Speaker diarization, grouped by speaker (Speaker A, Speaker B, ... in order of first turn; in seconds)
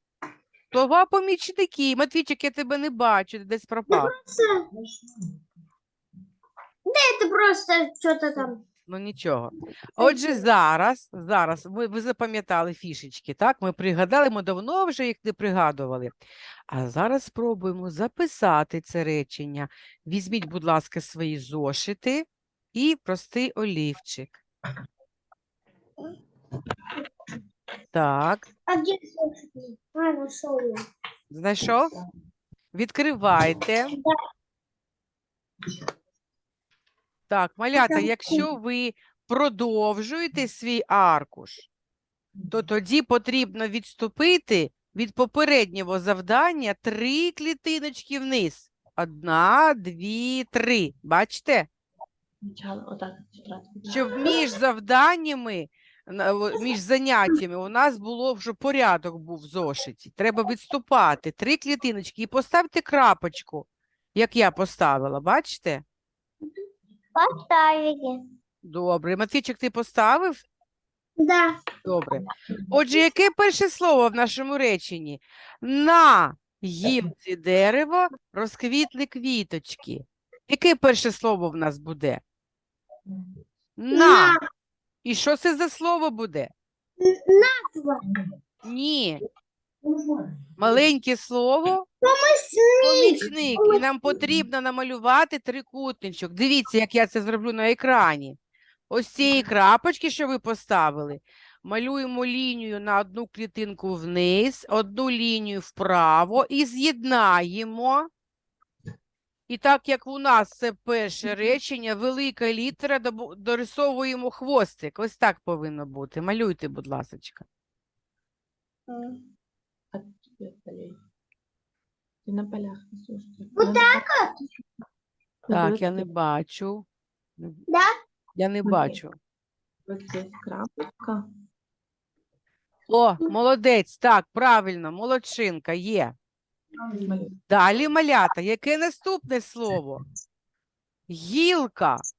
Speaker A: 0.7-4.1, 8.9-16.2, 16.7-24.4, 27.9-28.4, 31.3-32.0, 32.7-34.0, 37.3-41.7, 42.5-51.7, 53.9-65.8, 68.6-70.5, 71.8-82.2, 83.8-84.4, 85.0-86.5, 88.6-89.2, 90.6-91.9, 92.8-98.4, 98.9-108.1, 109.5-117.5, 125.5-126.9, 127.4-127.7, 128.4-129.2, 132.9-136.2, 137.5-140.0, 141.1-142.0
Speaker B: 3.9-4.7, 6.9-8.6, 10.0-10.4, 28.7-30.8, 37.8-38.5, 67.2-68.2, 71.2-71.6, 83.9-84.4, 87.0-88.1, 92.0-93.8, 118.9-119.2, 123.6-124.3
Speaker C: 52.4-54.2, 119.9-121.0, 122.2-124.1, 125.5-126.1, 128.7-129.0, 129.9-131.2, 136.8-137.4